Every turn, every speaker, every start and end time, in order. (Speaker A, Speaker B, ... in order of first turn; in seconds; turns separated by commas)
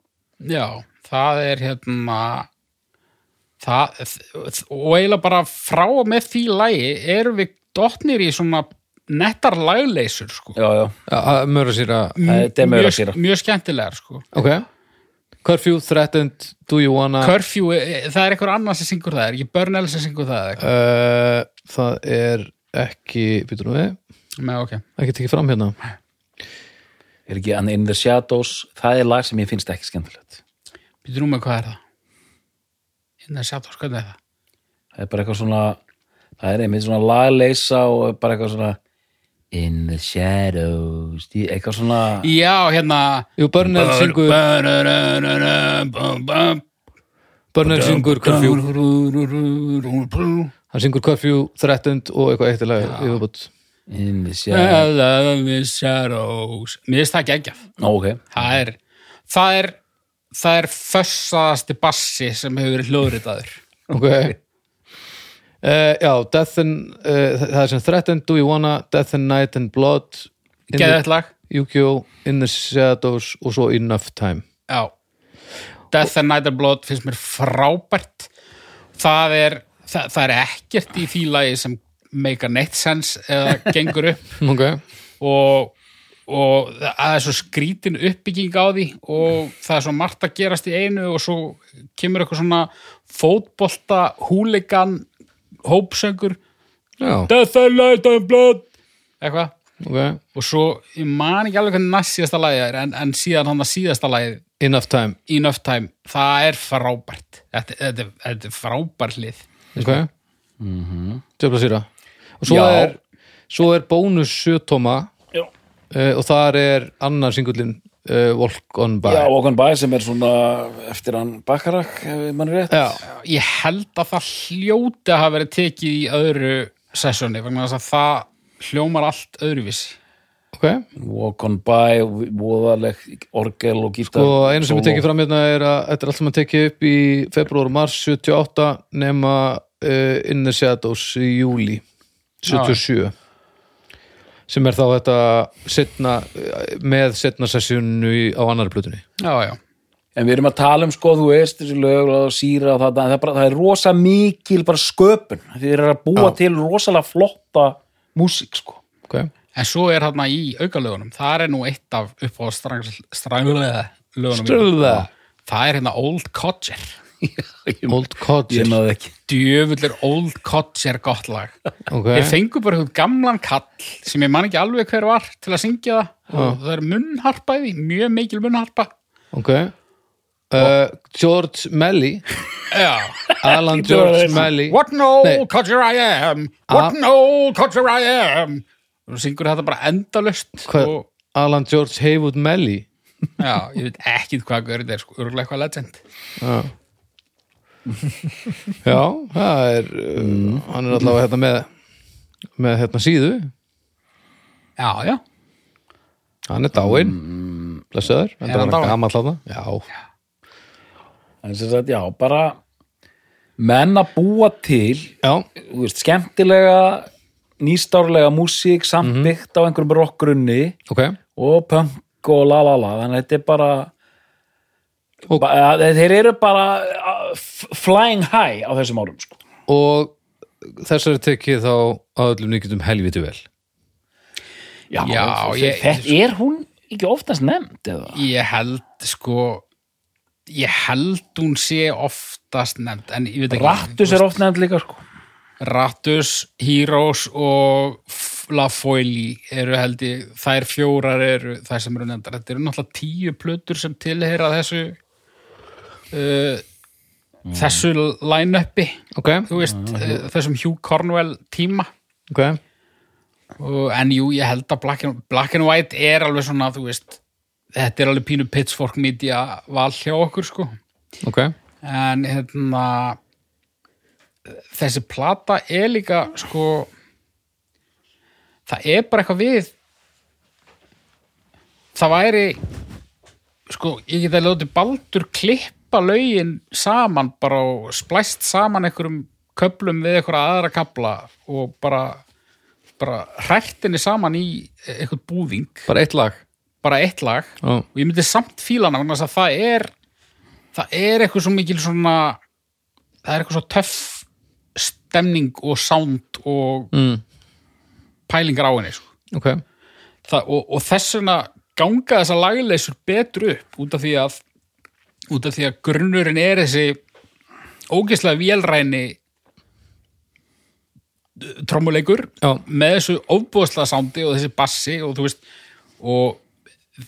Speaker A: 0.4-2.5, Speaker A: 3.6-10.6, Speaker B: 10.6-10.9, Speaker C: 11.1-12.2, Speaker A: 12.2-14.3, Speaker B: 12.2-13.2, Speaker C: 14.3-14.7, Speaker C: 15.4-17.4, Speaker A: 17.2-20.6, Speaker C: 20.6-24.0, Speaker A: 24.4-24.8, Speaker C: 25.0-25.8, Speaker B: 27.3-30.4, Speaker A: 31.0-31.8, Speaker A: 33.2-34.2, Speaker B: 35.0-35.8, Speaker B: 36.4-38.8, Speaker B: 39.5-42.3, Speaker A: 42.2-46.6, Speaker C: 43.4-44.4, Speaker C: 47.5-48.7, Speaker B: 47.6-48.5, Speaker A: 47.9-50.5, Speaker C: 50.7-53.5, Speaker A: 52.8-53.2, Speaker B: 53.9-54.9, Speaker A: 54.5-57.6, Speaker B: 57.8-58.3, Speaker A: 58.3-59.8, Speaker A: 60.3-63.6, Speaker C: 63.9-64.3, Speaker C: 65.6-74.5, Speaker A: 70.7-71.3, Speaker A: 75.9-78.3, Speaker A: 79.0-84.3, Speaker C: 84.4-84.8, Speaker A: 85.2-85.8, Speaker A: 86.3-95.1, Speaker A: 95.7-96.4, Speaker C: 97.0-97.3, Speaker A: 97.3-98.7, Speaker A: 99.2-99.5, Speaker C: 99.8-100.2, Speaker A: 100.3-104.4, Speaker C: 104.6-105.2, Speaker A: 105.3-109.5, Speaker C: 109.8-110.1, Speaker B: 110.6-111.2, Speaker C: 111.4-111.9, Speaker C: 112.4-113.0, Speaker B: 112.5-112.9, Speaker C: 113.5-115.1, Speaker C: 115.9-119.3, Speaker B: 119.0-123.0, Speaker C: 122.7-123.0, Speaker A: 123.0-130.0, Speaker C: 130.5-130.8, Speaker B: 131.0-135.1, Speaker C: 134.1-141.8, Speaker C: 142.4-143.1, Speaker A: 142.5-142.8, Speaker C: 144.5-149.0, Speaker A: 149.2-149.6, Speaker B: 150.2-158.8, Speaker A: 159.6-166.9, Speaker C: 164.3-165.1, Speaker B: 167.2-169.1, Speaker C: 167.9-168.8, Speaker A: 169.3-171.6, Speaker C: 171.9-172.4, Speaker A: 172.1-178.9, Speaker C: 176.3-176.6, Speaker C: 179.3-179.7, Speaker C: 180.5-182.2, Speaker A: 182.7-183.3, Speaker B: 183.3-184.5, Speaker C: 183.4-185.4, Speaker A: 184.4-191.1, Speaker C: 186.7-187.0, Speaker C: 190.7-192.9, Speaker A: 193.4-196.0, Speaker C: 196.4-196.7, Speaker C: 198.8-201.7, Speaker B: 200.2-200.7, Speaker C: 202.6-203.5, Speaker A: 204.8-205.2, Speaker C: 206.5-207.2, Speaker B: 206.8-207.9, Speaker C: 207.9-209.9, Speaker A: 208.4-209.0, Speaker B: 211.4-212.6, Speaker B: 213.6-217.1, Speaker B: 217.6-220.8, Speaker C: 219.0-219.3, Speaker C: 220.9-221.2, Speaker B: 221.4-223.9, Speaker B: 225.3-229.4, Speaker C: 229.7-233.4, Speaker B: 234.9-238.2, Speaker A: 235.0-236.1, Speaker A: 238.1-239.6, Speaker A: 240.5-244.4, Speaker B: 243.5-245.0, Speaker A: 245.6-255.0, Speaker A: 256.1-256.6, Speaker B: 257.5-257.8, Speaker A: 257.5-261.9, Speaker C: 259.1-259.5, Speaker B: 259.7-260.2, Speaker C: 262.3-262.6, Speaker A: 263.6-267.2, Speaker A: 267.8-270.8, Speaker C: 271.2-271.5, Speaker A: 271.8-273.2, Speaker A: 274.5-276.9, Speaker A: 278.7-279.7, Speaker A: 281.9-282.6, Speaker A: 283.7-292.2, Speaker A: 293.0-295.9, Speaker C: 295.9-296.4, Speaker A: 296.8-299.9, Speaker A: 300.7-302.4, Speaker A: 303.2-306.9, Speaker C: 306.9-307.2, Speaker A: 308.3-309.1, Speaker C: 309.3-309.6, Speaker A: 310.3-314.4, Speaker A: 315.3-317.0, Speaker A: 317.9-319.2, Speaker A: 321.4-325.4, Speaker A: 326.0-326.4